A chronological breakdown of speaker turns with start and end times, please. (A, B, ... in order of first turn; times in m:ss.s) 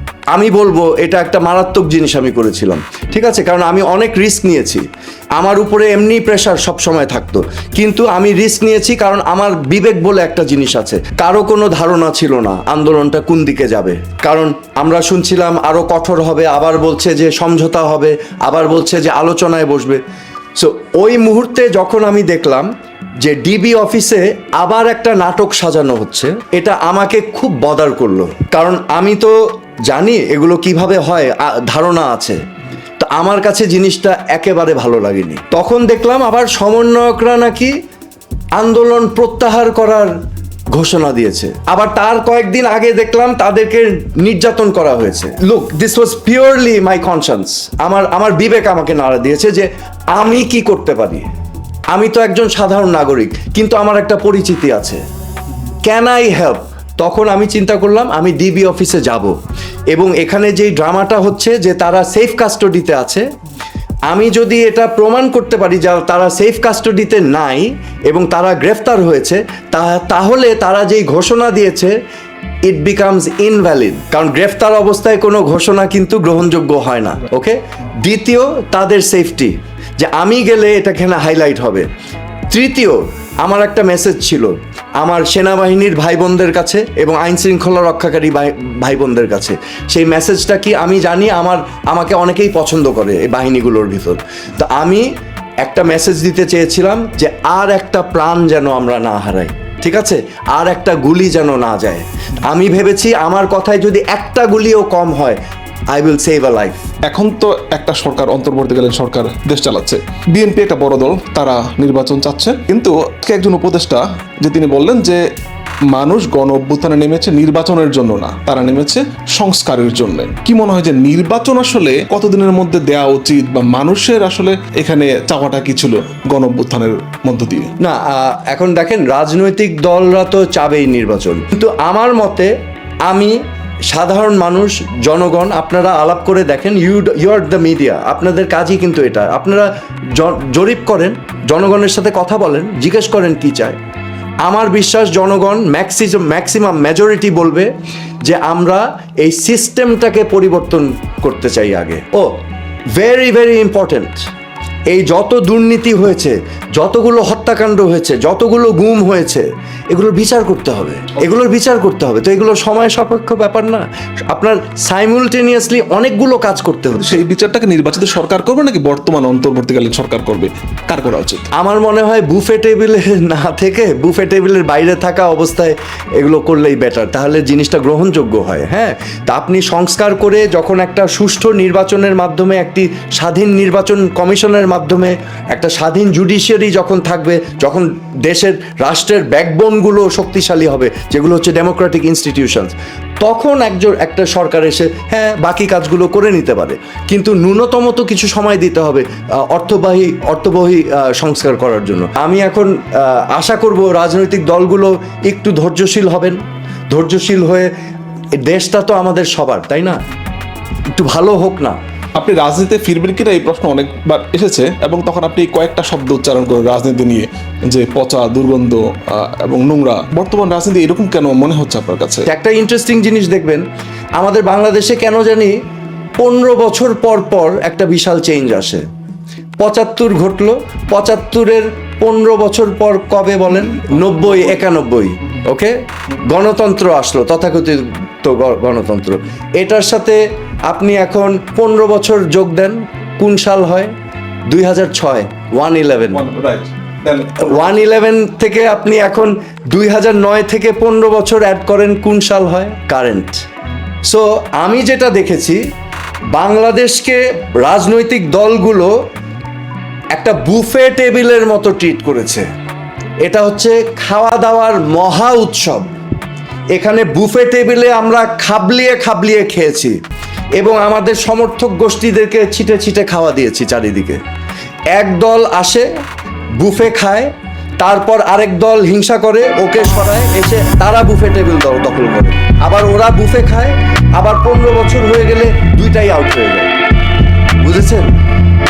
0:00.3-0:20.0 A
0:20.6-0:22.7 A
0:23.2-0:32.4 A
0:33.0-0:37.7 A
0:38.6-0:40.1 A
0:40.7-0:51.3 A
0:51.9-0:55.0 A
0:55.8-0:59.4 A
0:59.9-1:03.2 A
1:04.1-1:11.9 A
1:12.6-1:21.9 A
1:22.5-1:35.1 A
1:35.6-1:45.4 A
1:45.9-1:46.8 A
1:47.1-1:55.2 B
1:55.9-2:07.7 B
2:07.8-2:12.5 A
2:13.0-2:13.4 A
2:13.9-2:23.8 A
2:24.4-2:27.7 A
2:28.2-2:32.4 A
2:33.0-2:34.3 A
2:34.9-2:47.2 A
2:47.0-2:51.5 B
2:51.6-3:27.7 A
3:28.4-3:30.0 A
3:31.0-3:31.8 A
3:32.2-3:42.3 B
3:42.3-3:43.6 A
3:44.2-3:45.5 A
3:46.2-3:48.8 A
3:49.6-3:55.8 A
3:53.8-3:54.6 B
3:56.3-4:03.9 A
4:04.5-4:06.3 A
4:06.1-4:07.6 B
4:07.4-4:13.4 A
4:14.0-4:15.6 A
4:16.3-4:18.9 A
4:20.1-4:22.5 A
4:23.2-4:25.9 A
4:26.7-4:30.0 A
4:30.6-4:34.2 A
4:34.9-4:35.9 A
4:36.6-4:46.7 A
4:47.6-4:48.1 A